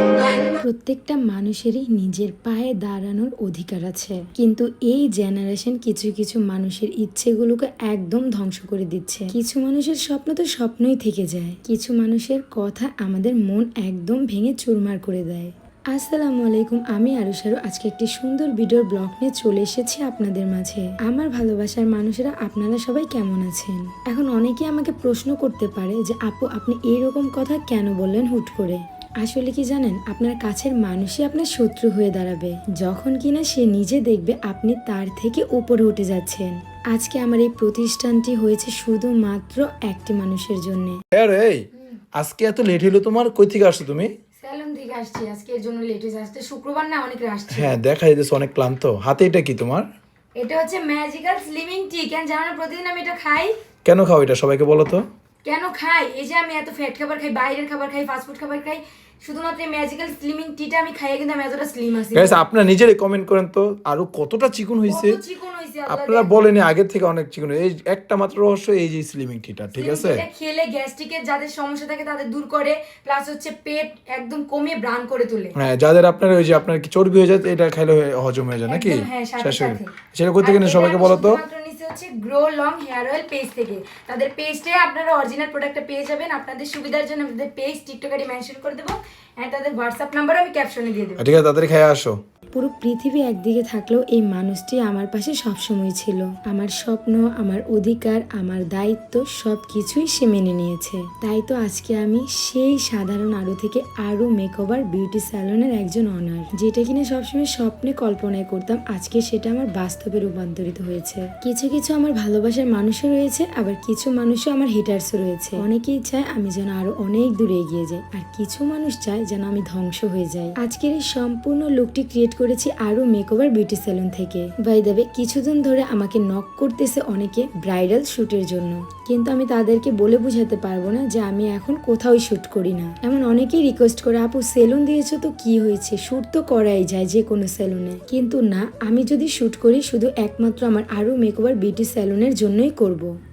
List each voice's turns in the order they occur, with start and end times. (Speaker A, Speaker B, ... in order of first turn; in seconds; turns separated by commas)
Speaker A: 0.2-41.0, Speaker B: 41.1-44.1, Speaker C: 44.4-47.6, Speaker B: 47.5-49.9, Speaker C: 50.4-53.5, Speaker B: 53.8-55.0, Speaker C: 55.4-62.4, Speaker B: 62.1-65.2, Speaker C: 64.9-66.3, Speaker B: 65.9-70.2, Speaker C: 69.8-75.5, Speaker B: 75.5-81.4, Speaker C: 78.7-79.8, Speaker C: 80.4-90.3, Speaker A: 90.4-91.1, Speaker B: 91.2-92.2, Speaker A: 92.5-143.1